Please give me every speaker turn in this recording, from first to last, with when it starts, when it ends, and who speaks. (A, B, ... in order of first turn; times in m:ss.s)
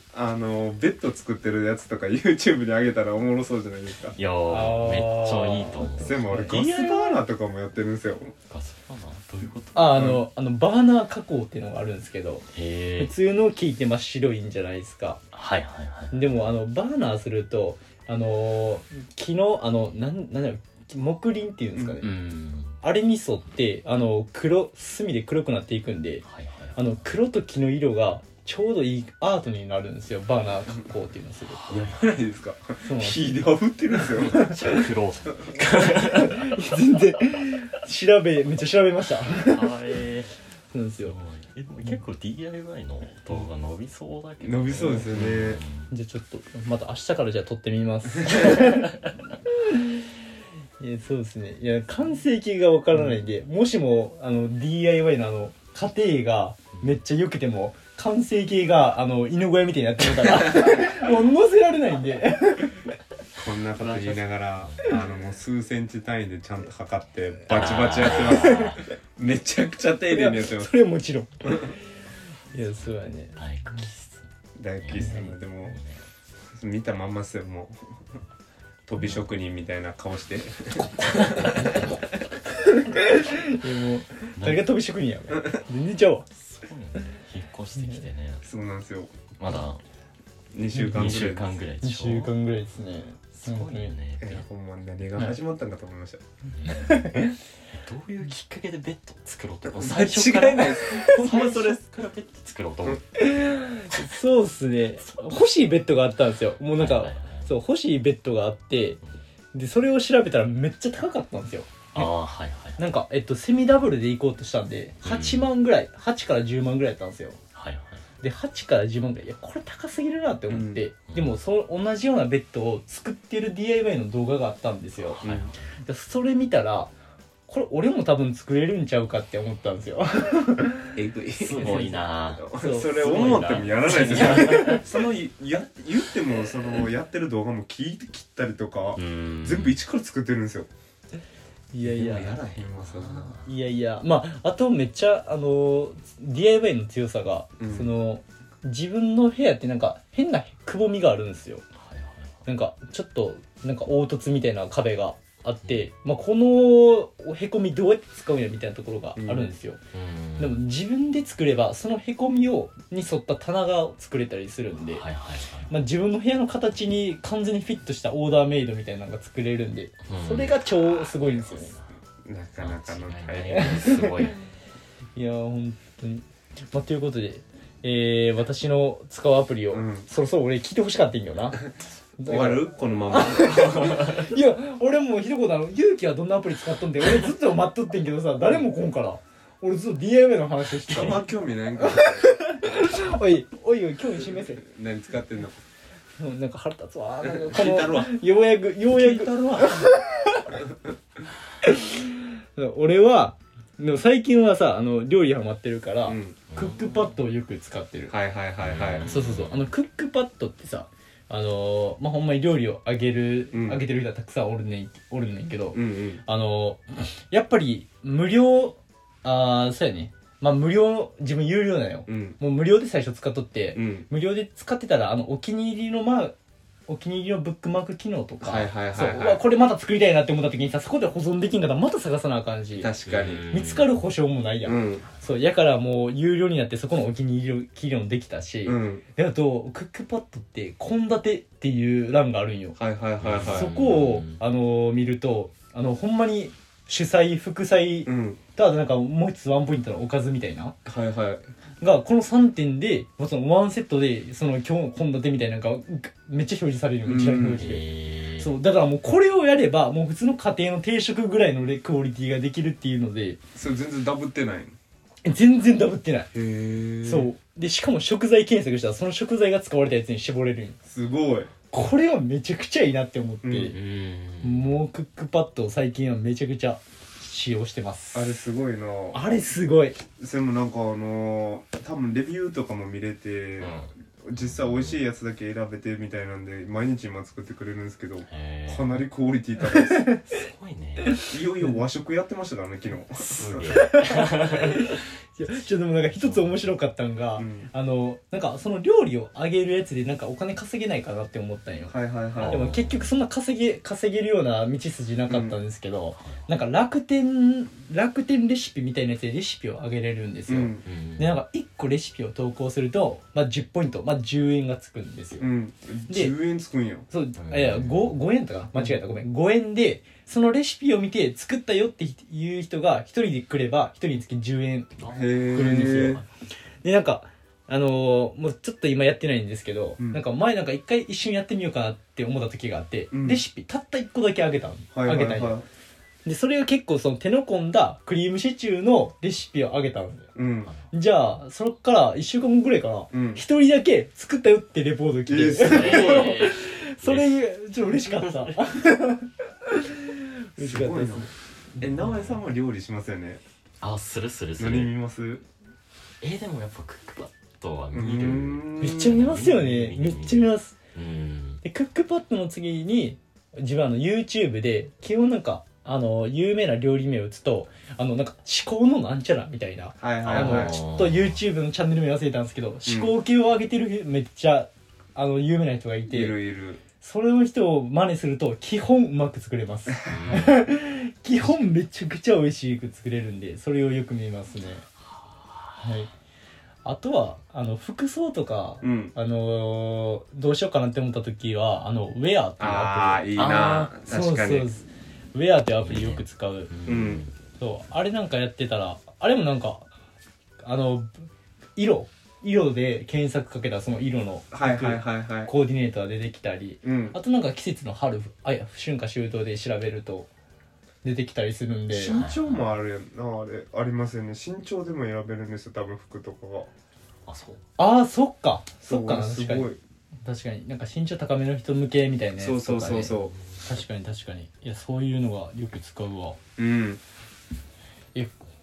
0:00.1-0:04.2 A
0:04.1-0:06.2 B
0:04.5-0:07.2 C
0:06.0-0:08.3 A
0:08.5-0:10.1 B
0:09.7-0:12.4 C
0:09.9-0:10.2 A
0:12.5-0:13.1 B
0:13.0-0:15.2 C
0:15.3-0:16.2 B
0:16.1-0:22.1 C
0:22.0-0:22.8 B
0:22.8-0:26.2 C
0:26.2-0:27.0 B
0:26.8-0:31.6 C
0:31.6-0:31.9 B
0:31.7-0:34.5 A
0:32.8-0:33.4 C
0:34.0-0:36.5 B
0:35.8-0:39.7 C
0:39.3-0:40.3 B
0:40.7-0:41.2 C
0:41.0-0:45.9 B
0:44.4-0:45.6 A
0:45.9-0:49.0 C
0:49.5-0:50.0 C
0:50.8-1:02.9 C
1:03.4-1:10.7 A
1:03.4-1:05.0 B
1:07.5-1:08.8 B
1:08.2-1:08.8 C
1:10.1-1:11.8 C
1:12.5-1:13.4 C
1:12.7-1:16.0 B
1:14.6-1:15.8 A
1:16.5-1:18.0 A
1:18.9-1:21.6 A
1:19.0-1:19.3 B
1:22.8-1:26.2 C
1:24.4-1:24.7 B
1:26.4-1:28.4 B
1:28.4-1:29.2 A
1:29.4-1:29.8 B
1:30.5-1:31.6 A
1:30.8-1:32.3 B
1:31.8-1:33.9 C
1:33.3-1:34.4 B
1:34.2-1:36.2 A
1:36.6-1:37.2 B
1:36.6-1:37.3 C
1:37.7-1:43.2 B
1:39.7-1:41.8 A
1:40.8-1:41.0 C
1:43.2-1:49.0 C
1:46.7-1:47.5 B
1:49.5-1:52.1 C
1:51.9-1:52.8 B
1:52.8-1:57.4 C
1:55.0-1:55.5 B
1:57.5-1:58.0 B
1:58.2-2:05.2 C
2:00.5-2:00.8 A
2:01.1-2:01.4 B
2:05.0-2:05.6 B
2:05.2-2:05.5 A
2:05.8-2:06.9 C
2:07.5-2:10.9 C
2:10.9-2:20.7 A
2:11.4-2:14.9 B
2:11.5-2:12.0 C
2:12.5-2:14.8 C
2:19.0-2:19.8 B
2:21.7-2:22.4 C
2:21.8-2:23.4 A
2:22.6-2:23.5 B
2:23.4-2:31.6 C
2:27.6-2:27.9 A
2:31.8-2:32.4 B
2:32.4-2:39.8 C
2:39.2-2:39.5 A
2:39.9-2:40.6 B
2:40.4-2:45.0 C
2:44.9-2:45.8 B
2:45.7-2:51.7 C
2:50.1-2:51.8 B
2:52.2-2:53.9 A
2:52.6-2:54.4 B
2:53.6-2:54.3 C
2:55.1-3:01.6 C
2:59.7-3:00.1 A
3:02.2-3:11.2 C
3:02.2-3:04.0 A
3:03.8-3:04.2 B
3:10.8-3:12.3 A
3:11.8-3:14.6 C
3:14.6-3:15.6 A
3:16.2-3:20.5 C
3:17.2-3:18.1 A
3:18.9-3:19.8 A
3:21.6-3:28.1 C
3:26.1-3:26.4 A
3:26.5-3:27.1 B
3:28.1-3:29.1 A
3:28.6-3:29.7 B
3:29.1-3:46.3 C
3:33.5-3:33.8 A
3:35.7-3:36.2 A
3:42.1-3:42.4 A
3:43.7-3:44.1 A
3:46.9-3:52.9 C
3:48.4-3:49.4 A
3:52.8-3:53.4 A
3:53.0-3:53.9 B
3:53.5-4:02.8 C
3:54.6-3:55.0 A
3:58.6-3:59.0 A
4:02.8-4:03.7 A
4:03.2-4:04.4 B
4:03.5-4:10.7 C
4:08.1-4:08.4 A
4:10.8-4:11.4 A
4:11.8-4:17.8 C
4:17.0-4:17.7 A
4:17.5-4:18.6 B
4:18.4-4:23.4 C
4:23.6-4:24.7 A
4:25.2-4:26.3 C
4:26.3-4:27.3 A
4:27.0-4:30.8 C
4:30.8-4:31.5 A
4:31.7-4:33.8 C
4:33.4-4:33.7 A
4:33.6-4:34.8 B
4:34.4-4:38.3 C
4:38.1-4:39.4 A
4:39.1-4:40.0 C
4:40.2-4:50.1 A
4:43.6-4:45.0 B
4:48.2-4:49.0 B
4:49.8-4:50.2 C
4:50.3-4:51.3 B
4:51.1-4:51.3 C
4:51.3-4:53.8 A
4:53.2-4:54.8 B
4:53.7-5:15.5 C
4:56.1-4:56.6 B
4:57.4-4:57.7 A
5:01.9-5:02.7 A
5:02.4-5:03.1 B
5:05.3-5:05.6 A
5:06.1-5:06.5 B
5:10.5-5:10.8 A
5:10.8-5:11.4 B
5:15.4-5:17.1 A
5:16.1-5:16.4 C
5:17.1-5:26.2 C
5:17.4-5:18.1 B
5:25.0-5:26.2 B
5:25.1-5:26.2 A
5:26.8-5:35.6 C
5:33.1-5:33.4 A
5:34.9-5:35.7 A
5:36.2-5:40.3 C
5:40.3-5:40.7 A
5:40.9-5:51.3 C
5:43.1-5:43.4 A
5:45.3-5:46.3 A
5:45.6-5:48.6 B
5:50.6-5:53.4 A
5:52.0-5:52.4 B
5:53.8-5:55.0 B
5:54.6-5:55.4 A
5:56.2-6:01.6 B
5:57.9-5:59.2 A
5:58.8-6:00.8 C
6:01.6-6:16.4 C
6:10.0-6:10.8 A
6:10.2-6:11.4 B
6:12.8-6:13.1 A
6:16.1-6:16.8 A
6:17.0-6:24.8 C
6:20.1-6:20.6 B
6:25.8-6:26.1 C
6:26.8-6:33.3 C
6:28.8-6:29.1 A
6:32.6-6:34.7 A
6:33.3-6:33.9 B
6:34.1-6:36.7 C
6:35.8-6:37.3 B
6:36.8-6:37.2 A
6:37.6-6:39.9 C
6:40.6-6:50.3 C
6:44.5-6:45.5 A
6:46.8-6:47.2 A
6:51.0-6:52.2 C
6:51.9-6:56.7 A
6:52.1-6:52.8 B
6:57.2-6:57.6 B
6:57.8-6:59.7 C
6:58.8-6:59.8 A
7:00.2-7:06.4 C
7:02.4-7:03.4 A
7:06.6-7:07.0 A
7:08.1-7:08.4 C